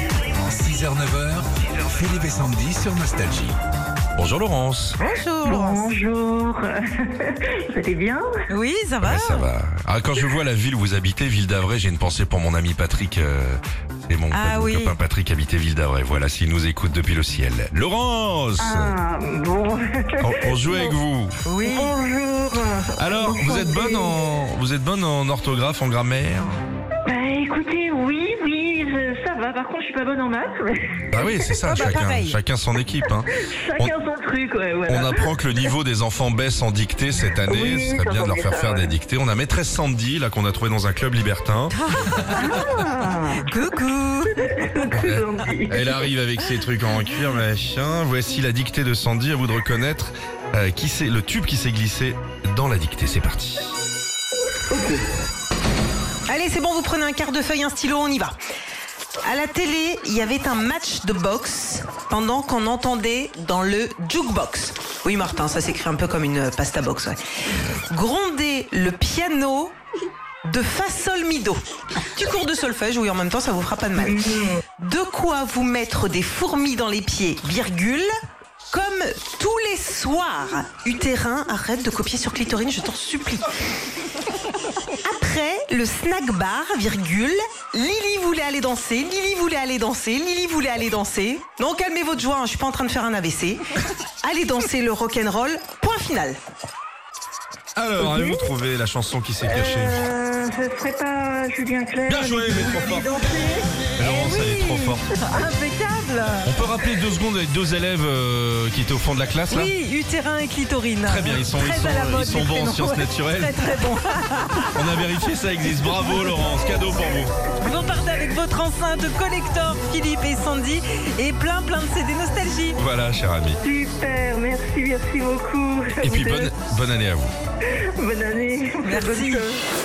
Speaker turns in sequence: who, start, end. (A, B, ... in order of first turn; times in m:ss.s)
0:00.4-0:03.6 A
0:04.2-0:05.0 B
0:05.0-0:05.9 C
0:05.4-0:08.2 D
0:08.5-0:09.5 C
0:09.0-0:19.0 B
0:14.3-0:15.0 C
0:18.6-0:21.0 D
0:20.2-0:21.4 B
0:21.4-0:21.9 C
0:21.6-0:24.2 D
0:23.0-0:26.6 B
0:27.0-0:31.0 D
0:31.1-0:33.9 B
0:31.6-0:32.4 C
0:33.5-0:35.3 D
0:34.9-0:41.7 B
0:37.4-0:38.9 D
0:41.7-0:44.6 C
0:42.3-0:43.4 D
0:44.4-0:46.0 D
0:44.9-0:53.7 B
0:54.7-0:55.0 D
0:56.3-0:58.4 C
0:59.2-1:07.2 C
1:07.9-1:09.7 C
1:10.4-1:14.2 C
1:14.0-1:14.6 D
1:14.8-1:18.1 C
1:18.7-1:23.5 C
1:25.0-1:33.6 C
1:34.2-1:36.4 C
1:37.8-1:40.0 B
1:38.0-1:38.5 D
1:39.4-1:43.8 D
1:42.1-1:43.3 B
1:44.0-1:45.1 B
1:44.0-1:46.5 C
1:46.4-1:49.7 B
1:49.5-1:54.8 C
1:51.0-1:53.8 B
1:54.7-1:57.3 B
1:57.6-2:02.8 C
2:02.8-2:03.6 B
2:03.6-2:06.6 D
2:06.0-2:07.3 B
2:07.9-2:09.6 D
2:08.8-2:09.5 C